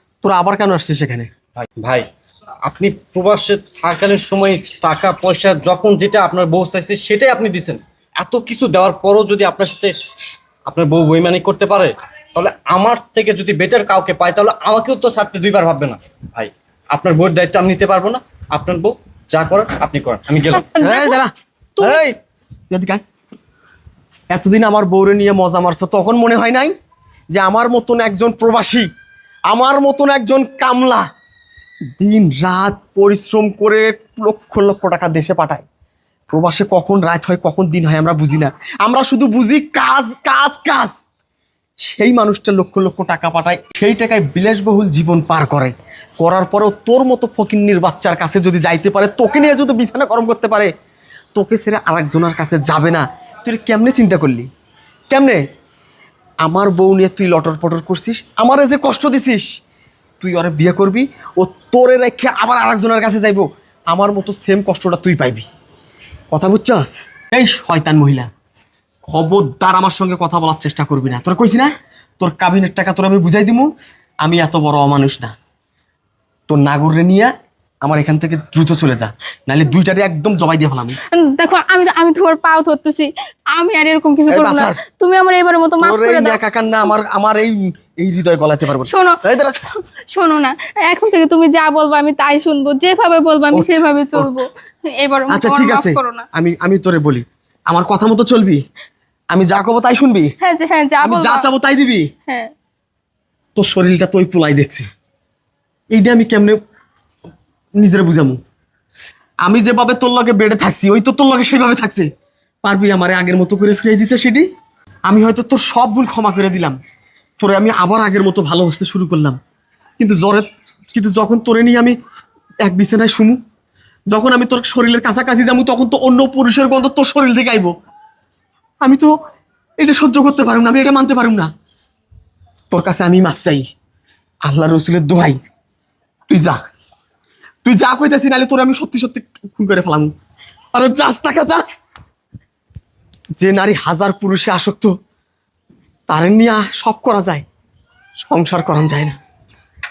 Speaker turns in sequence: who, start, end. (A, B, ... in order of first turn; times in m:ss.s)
0:00.2-0:01.3 A
0:01.6-0:02.1 B
0:02.6-0:09.9 B
0:10.7-0:20.7 B
0:20.5-0:21.2 C
0:20.8-0:22.2 A
0:21.8-0:22.0 C
0:22.7-0:23.0 A
0:24.3-0:26.7 A
0:27.3-0:28.9 A
0:29.5-0:31.0 A
0:32.0-0:35.6 A
0:36.3-0:40.9 A
0:41.8-0:50.7 A
0:51.3-0:54.5 A
0:55.1-0:55.4 A
0:56.4-0:59.5 A
1:00.2-1:05.5 A
1:06.3-1:08.3 A
1:09.1-1:15.3 A
1:16.5-1:17.3 A
1:17.8-1:21.0 A
1:21.1-1:26.4 C
1:24.3-1:24.8 A
1:25.8-1:29.6 A
1:28.8-1:29.2 C
1:29.8-1:36.2 C
1:33.5-1:34.3 A
1:35.3-1:38.6 A
1:39.3-1:40.3 A
1:40.4-1:41.5 C
1:41.0-1:42.0 A
1:43.6-1:44.8 A
1:45.9-1:46.6 A
1:47.8-1:48.4 A
1:49.4-1:52.1 A
1:52.6-1:54.4 A
1:55.0-1:56.8 A
1:57.4-1:59.4 A
2:00.0-2:02.0 A
2:02.6-2:03.4 A
2:04.1-2:07.7 A
2:08.8-2:09.1 A
2:09.8-2:11.5 A
2:12.7-2:13.6 A
2:14.4-2:15.4 A
2:16.3-2:16.6 A
2:17.6-2:20.1 A
2:20.7-2:21.6 A
2:23.4-2:24.9 A
2:26.1-2:27.4 A
2:28.2-2:29.2 A